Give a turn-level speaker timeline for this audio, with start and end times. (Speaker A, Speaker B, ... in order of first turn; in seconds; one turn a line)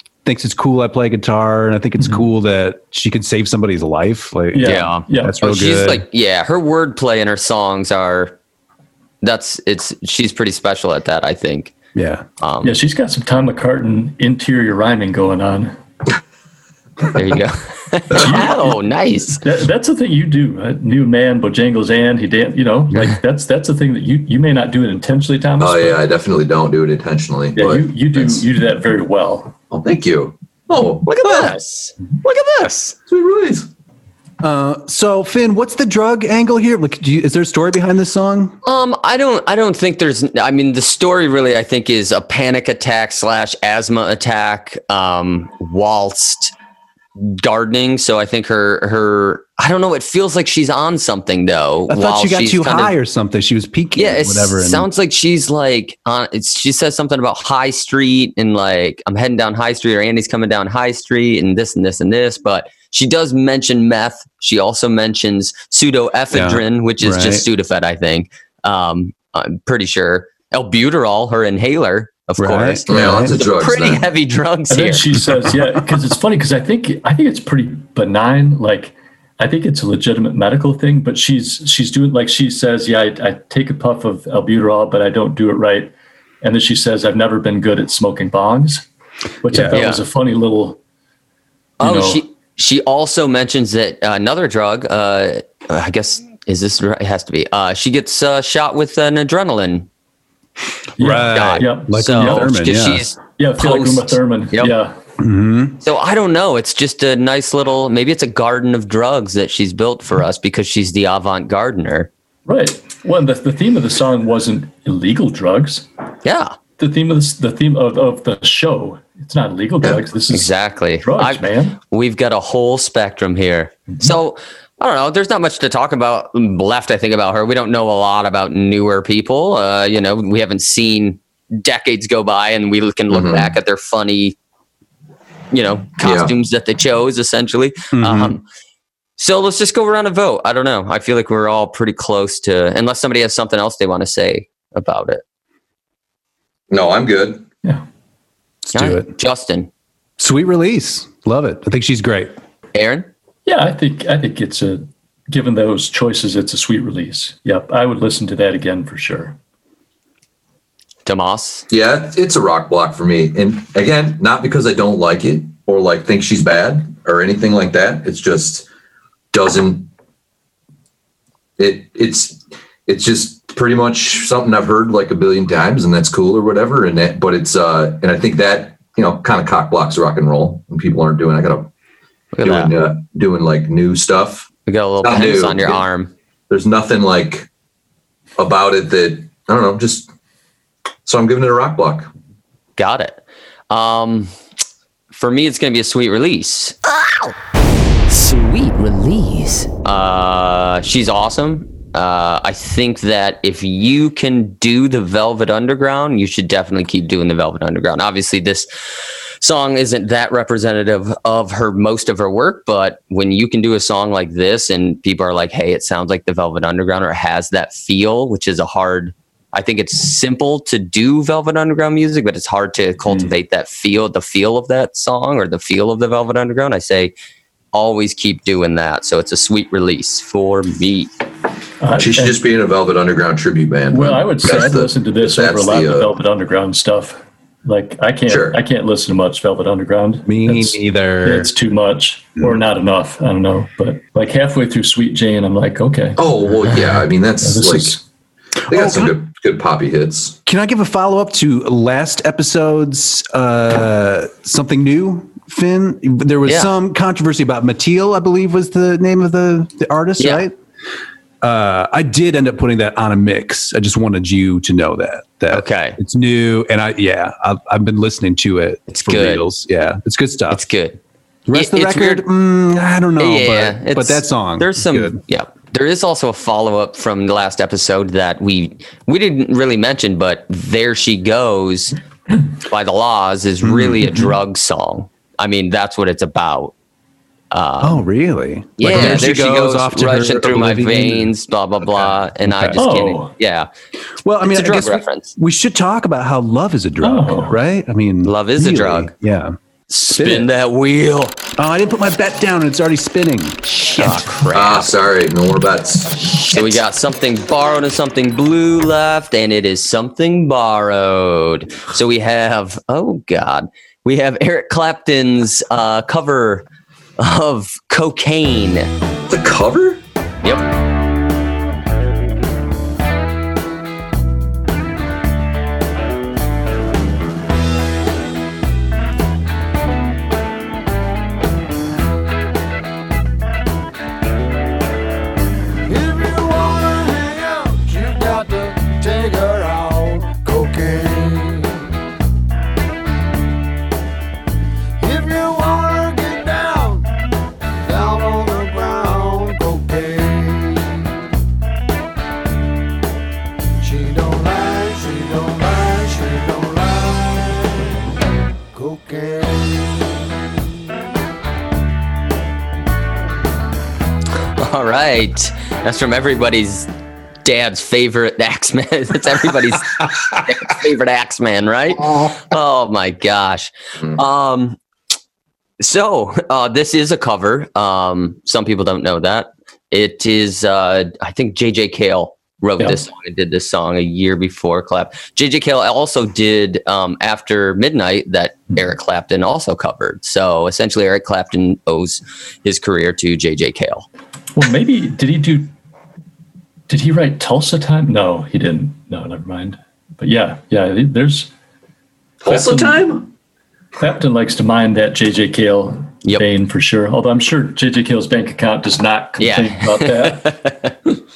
Speaker A: 0.2-6.0
Speaker B: 2.0-2.3
Speaker B: 4.5-5.4
Speaker C: 4.6-8.3
Speaker C: 9.2-11.8
Speaker A: 11.9-12.2
Speaker C: 12.4-12.8
Speaker B: 12.6-15.7
Speaker C: 17.1-19.4
Speaker B: 18.1-18.7
Speaker B: 19.4-26.0
Speaker D: 25.6-28.4
Speaker B: 27.6-29.5
Speaker D: 29.7-31.6
Speaker C: 31.1-33.0
Speaker D: 32.6-33.7
Speaker A: 34.4-38.6
Speaker C: 38.6-46.5
Speaker C: 47.2-52.9
Speaker A: 51.9-54.9
Speaker C: 54.0-75.2
Speaker A: 66.3-67.5
Speaker A: 72.4-73.3
Speaker D: 72.9-74.0
Speaker B: 74.7-88.8
Speaker B: 89.4-90.8
Speaker C: 89.7-90.0
Speaker C: 91.8-99.9
Speaker B: 91.8-92.2
Speaker B: 101.0-102.5
Speaker A: 101.0-103.1
Speaker C: 101.3-104.7
Speaker B: 103.4-105.0
Speaker A: 105.2-105.8
Speaker C: 105.8-112.1
Speaker B: 112.5-115.9
Speaker C: 116.2-116.5
Speaker B: 116.8-121.8
Speaker C: 120.3-134.4
Speaker B: 123.9-124.1
Speaker D: 133.1-133.5
Speaker C: 135.5-138.4
Speaker D: 136.0-136.3
Speaker A: 137.9-138.4
Speaker C: 139.2-145.2
Speaker D: 146.7-147.5
Speaker A: 148.7-149.1
Speaker C: 148.7-149.7
Speaker A: 150.2-152.4
Speaker C: 152.7-153.1
Speaker B: 153.5-159.4
Speaker C: 161.1-161.7
Speaker D: 161.7-168.7
Speaker D: 169.3-169.9
Speaker D: 171.6-181.7
Speaker C: 182.3-182.7
Speaker D: 182.4-184.5
Speaker C: 184.7-186.1
Speaker D: 185.0-185.8
Speaker D: 186.5-187.5
Speaker D: 188.4-190.1
Speaker D: 191.1-192.1
Speaker C: 192.8-194.3
Speaker C: 195.1-197.3
Speaker C: 198.1-208.7
Speaker C: 209.4-227.1
Speaker C: 227.7-231.1
Speaker B: 231.8-232.4
Speaker D: 232.0-236.1
Speaker B: 233.9-248.0
Speaker D: 238.3-238.6
Speaker A: 240.3-241.5
Speaker D: 246.2-248.0
Speaker D: 248.7-250.4
Speaker A: 248.7-249.1
Speaker A: 250.5-260.6
Speaker C: 256.5-256.7
Speaker C: 260.2-260.4
Speaker A: 261.4-270.6
Speaker C: 265.5-266.0
Speaker C: 268.9-269.4
Speaker C: 270.5-271.0
Speaker A: 271.5-275.2
Speaker C: 271.5-272.2
Speaker C: 273.2-282.0
Speaker C: 282.6-286.7
Speaker A: 283.6-284.1
Speaker C: 287.5-288.1
Speaker A: 287.8-291.3
Speaker C: 288.8-293.7
Speaker D: 288.9-289.2
Speaker A: 292.4-292.8
Speaker B: 292.8-293.3
Speaker A: 294.2-299.6
Speaker C: 294.4-295.3
Speaker B: 297.0-297.6
Speaker C: 298.2-299.1
Speaker C: 299.9-301.4
Speaker A: 300.1-300.5
Speaker A: 301.6-304.3
Speaker C: 303.6-304.9
Speaker D: 304.5-306.8
Speaker C: 306.4-316.7
Speaker C: 317.2-318.9
Speaker D: 319.3-320.0
Speaker E: 335.9-341.8
Speaker E: 345.0-347.1
Speaker E: 347.9-351.0
Speaker E: 353.8-357.4
Speaker E: 358.7-359.9
Speaker C: 364.6-366.9
Speaker C: 367.4-374.8
Speaker C: 375.8-394.1
Speaker B: 394.6-395.7
Speaker B: 396.9-401.5
Speaker D: 402.4-403.3
Speaker B: 402.4-403.1
Speaker B: 404.0-410.6
Speaker C: 409.4-410.9